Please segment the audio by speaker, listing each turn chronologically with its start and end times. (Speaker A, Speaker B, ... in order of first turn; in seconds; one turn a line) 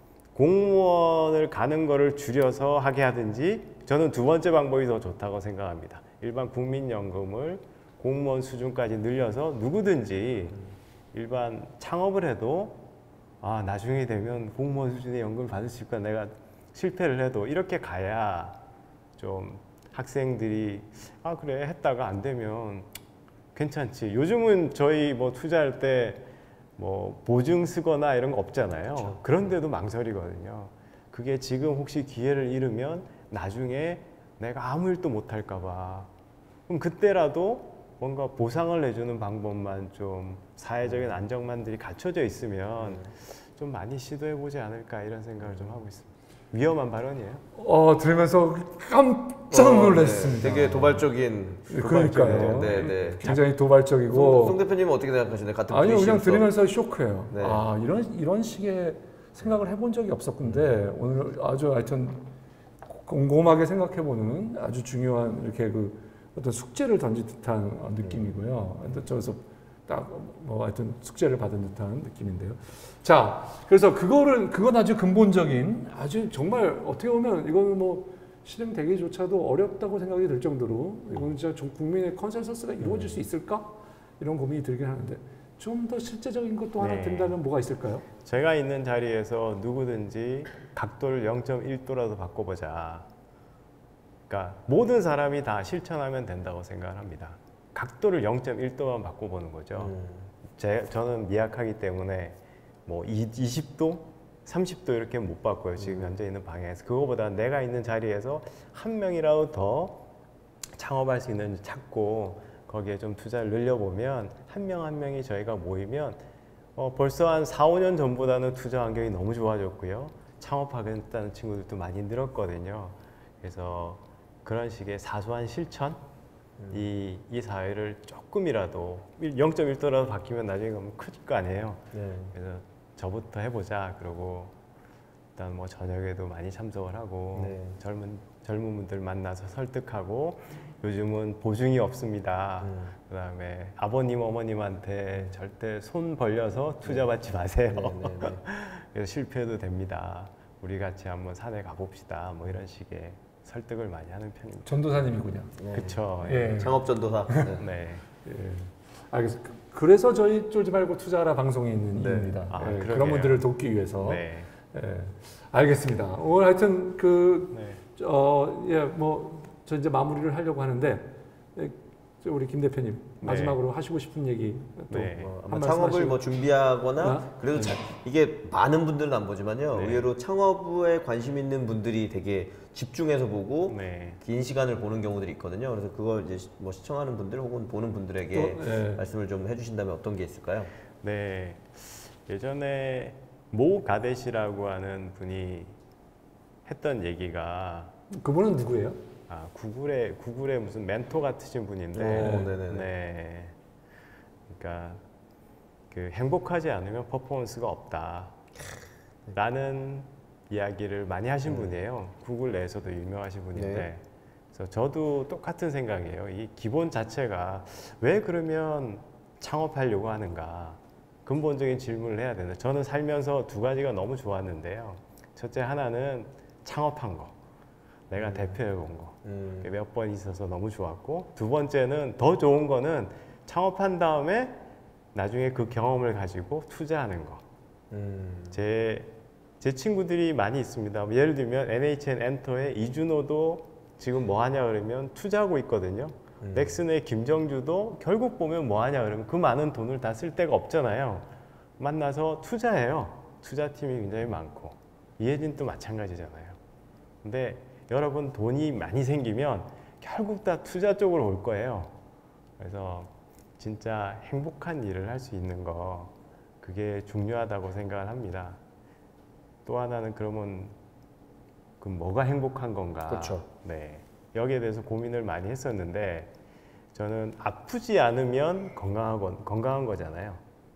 Speaker A: 0.3-10.6
Speaker A: 11.1-12.8
Speaker A: 13.4-18.6
Speaker A: 19.2-22.9
Speaker A: 23.5-36.1
Speaker B: 28.9-29.2
Speaker A: 36.7-47.4
Speaker B: 42.8-43.1
Speaker B: 45.4-45.8
Speaker C: 47.5-51.1
Speaker B: 49.5-53.4
Speaker C: 51.7-54.6
Speaker A: 51.8-53.4
Speaker B: 54.1-56.5
Speaker C: 55.7-62.3
Speaker B: 57.3-57.6
Speaker B: 60.4-60.7
Speaker C: 62.9-88.0
Speaker B: 68.0-69.0
Speaker B: 82.8-83.2
Speaker A: 86.8-87.4
Speaker A: 88.2-93.1
Speaker A: 94.3-99.9
Speaker B: 99.8-100.3
Speaker A: 100.5-110.0
Speaker B: 105.8-106.2
Speaker A: 110.7-116.2
Speaker A: 116.8-126.0
Speaker B: 126.6-126.9
Speaker A: 126.7-134.5
Speaker B: 131.9-132.3
Speaker A: 135.3-155.0
Speaker B: 137.3-137.8
Speaker B: 142.6-142.9
Speaker B: 147.7-148.4
Speaker C: 154.6-155.6
Speaker B: 155.6-157.6
Speaker A: 155.7-156.6
Speaker C: 156.2-157.5
Speaker A: 157.5-158.0
Speaker C: 158.2-176.2
Speaker B: 161.9-162.4
Speaker A: 162.5-164.5
Speaker A: 167.5-167.8
Speaker A: 173.2-173.6
Speaker A: 174.9-175.3
Speaker B: 175.2-190.7
Speaker C: 177.0-177.8
Speaker A: 179.7-180.1
Speaker A: 183.7-184.2
Speaker C: 188.3-189.0
Speaker A: 191.0-195.7
Speaker A: 196.7-197.9
Speaker C: 198.1-199.0
Speaker A: 199.3-203.5
Speaker B: 201.9-202.9
Speaker C: 202.1-202.5
Speaker A: 204.5-205.0
Speaker A: 205.9-208.3
Speaker A: 209.3-214.0
Speaker B: 211.4-211.8
Speaker B: 213.5-213.9
Speaker A: 214.5-227.3
Speaker A: 228.1-234.6
Speaker B: 228.2-228.6
Speaker B: 229.2-229.7
Speaker A: 235.1-237.4
Speaker B: 237.9-238.6
Speaker A: 238.5-251.3
Speaker B: 246.4-246.8
Speaker A: 251.8-256.6
Speaker A: 257.2-261.9
Speaker A: 262.6-268.6
Speaker A: 269.6-270.7
Speaker A: 271.8-276.3
Speaker B: 273.1-273.4
Speaker A: 276.9-280.4